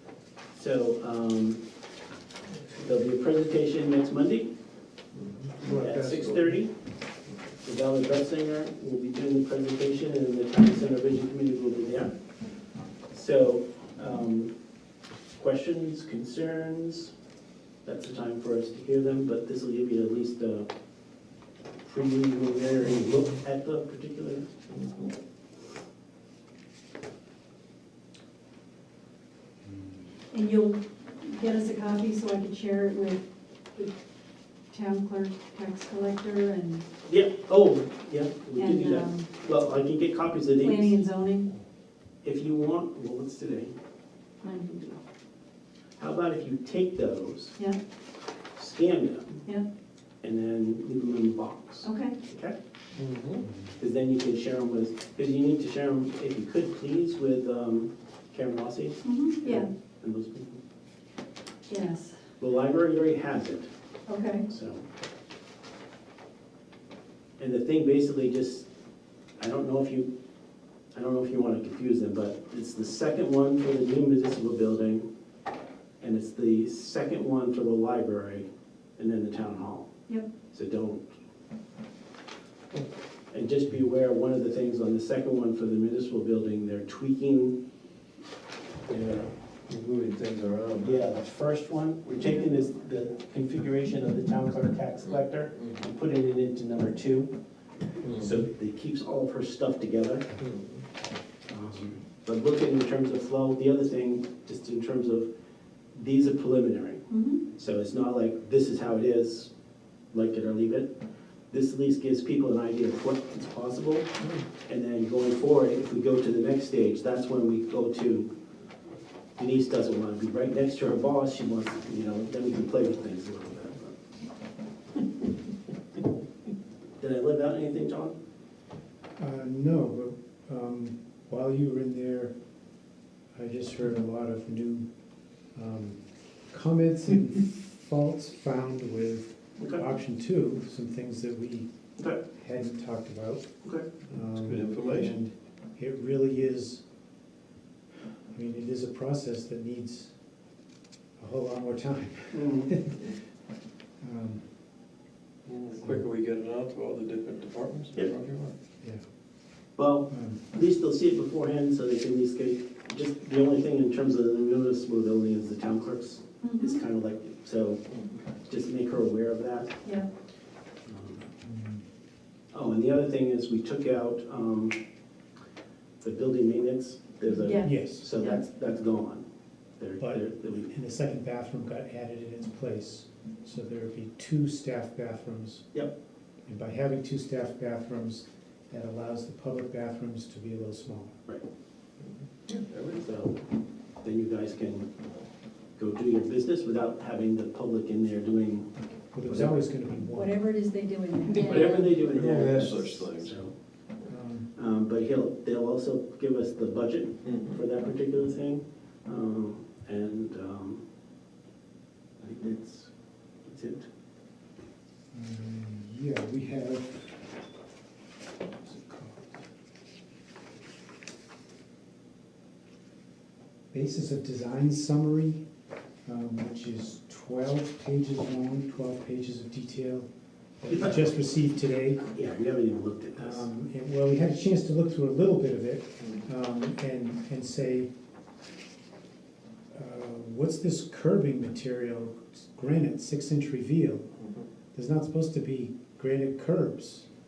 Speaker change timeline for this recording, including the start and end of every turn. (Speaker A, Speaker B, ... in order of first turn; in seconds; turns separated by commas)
Speaker A: 0.5-1.6, Speaker A: 2.8-4.5, Speaker B: 5.2-6.4, Speaker C: 5.6-6.4, Speaker A: 5.7-6.7, Speaker A: 7.6-12.1, Speaker A: 13.1-14.5, Speaker A: 15.4-17.1, Speaker A: 17.8-20.7, Speaker A: 21.8-24.5, Speaker B: 24.7-25.1, Speaker C: 29.6-30.0, Speaker D: 30.3-33.9, Speaker D: 34.7-36.8, Speaker A: 37.0-41.0, Speaker D: 38.5-39.3, Speaker D: 40.6-41.5, Speaker A: 42.2-43.7, Speaker D: 44.4-45.0, Speaker A: 46.0-47.5, Speaker A: 48.5-49.4, Speaker A: 50.2-52.5, Speaker D: 51.8-52.1, Speaker B: 53.0-53.4, Speaker C: 53.4-53.7, Speaker A: 53.8-60.6, Speaker D: 59.0-59.7, Speaker D: 61.7-62.1, Speaker A: 62.4-63.7, Speaker D: 64.1-64.4, Speaker A: 64.5-64.8, Speaker A: 67.4-68.7, Speaker A: 69.4-70.1, Speaker A: 70.9-75.0, Speaker A: 76.0-79.9, Speaker A: 80.5-81.1, Speaker A: 83.3-87.6, Speaker B: 88.9-91.0, Speaker A: 90.8-97.3, Speaker B: 98.0-98.4, Speaker A: 98.1-100.3, Speaker B: 100.4-100.8, Speaker A: 101.5-105.3, Speaker A: 105.9-109.5, Speaker D: 107.1-107.4, Speaker A: 110.1-110.9, Speaker A: 111.5-114.1, Speaker A: 114.6-118.3, Speaker A: 119.4-124.0, Speaker A: 127.0-128.1, Speaker C: 129.2-132.3, Speaker C: 133.3-134.9, Speaker C: 135.5-141.7, Speaker A: 139.6-139.8, Speaker C: 142.3-143.5, Speaker C: 144.1-146.8, Speaker B: 144.2-145.1, Speaker C: 148.3-150.1, Speaker C: 151.2-153.1, Speaker A: 152.3-152.7, Speaker C: 154.0-154.4, Speaker B: 155.4-158.6, Speaker A: 159.8-167.8, Speaker C: 160.1-160.4, Speaker D: 166.4-166.8, Speaker A: 168.4-169.8, Speaker A: 170.8-171.3, Speaker C: 171.4-171.8, Speaker A: 172.5-174.8, Speaker A: 176.0-179.2, Speaker D: 177.3-178.4, Speaker C: 177.6-178.1, Speaker A: 179.8-180.7, Speaker C: 180.0-185.7, Speaker C: 186.4-191.2, Speaker B: 192.5-193.1, Speaker A: 193.0-193.3, Speaker A: 194.0-194.9, Speaker A: 195.8-198.7, Speaker C: 199.1-200.4, Speaker A: 199.2-199.7, Speaker D: 200.1-202.0, Speaker A: 201.3-203.5, Speaker B: 201.4-203.4, Speaker C: 202.2-202.9, Speaker C: 204.1-204.5, Speaker A: 204.5-210.8, Speaker B: 207.2-207.6, Speaker A: 212.2-212.9, Speaker A: 213.4-213.9, Speaker C: 215.1-217.2, Speaker C: 218.6-219.4, Speaker C: 223.7-225.4, Speaker C: 226.0-230.1, Speaker C: 230.6-232.1, Speaker A: 230.7-231.0, Speaker A: 232.1-233.4, Speaker C: 233.2-237.9, Speaker C: 239.7-244.1, Speaker C: 244.7-247.1